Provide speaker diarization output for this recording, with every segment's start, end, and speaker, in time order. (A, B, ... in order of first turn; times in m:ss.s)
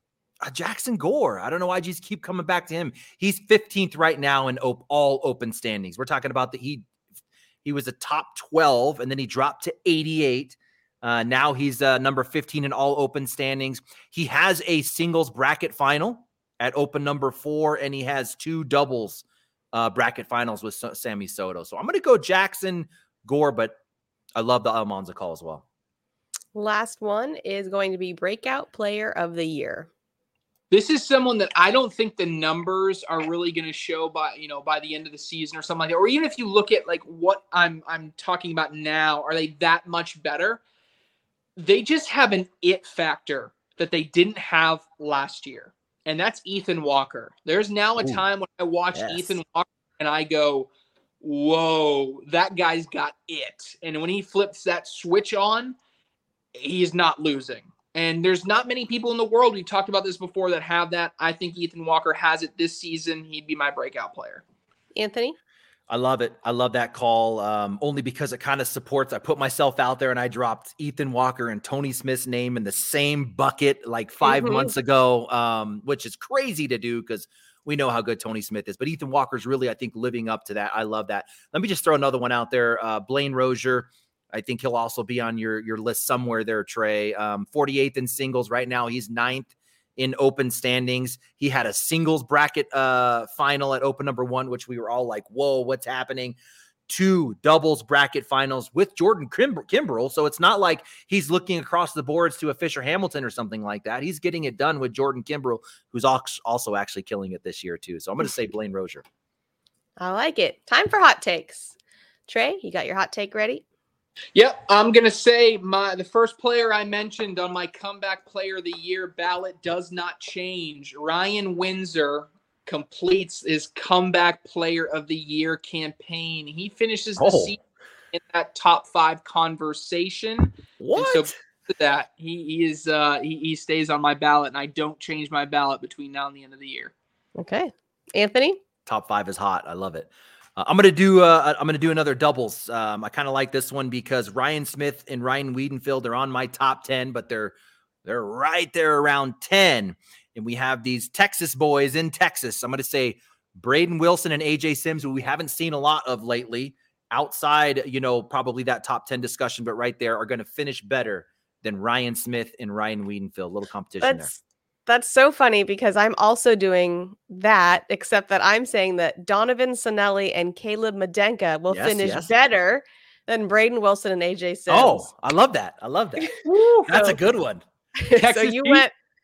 0:00.4-0:06.9 A
0:07.6-0:23.8 A
0:24.4-0:25.6 A
0:26.6-0:29.9 B
0:30.7-0:40.6 C
0:41.6-0:50.7 C
0:48.9-0:49.4 A
0:51.2-0:55.8 C
0:56.6-1:04.4 C
1:05.0-1:05.4 B
1:05.9-1:36.4 A
1:14.2-1:14.7 B
1:36.9-1:49.0 A
1:50.0-1:51.8 B
1:52.3-1:53.6 B
1:54.4-2:07.6 C
2:07.2-2:07.5 A
2:08.1-2:16.9 C
2:10.8-2:11.3 A
2:17.4-2:18.6 B
2:18.9-2:44.3 A
2:44.0-2:55.1 B
2:51.7-2:52.3 A
2:54.7-2:57.6 A
2:56.5-2:56.8 C
2:56.9-2:57.2 B
2:58.0-2:58.9 B
2:58.2-2:58.8 C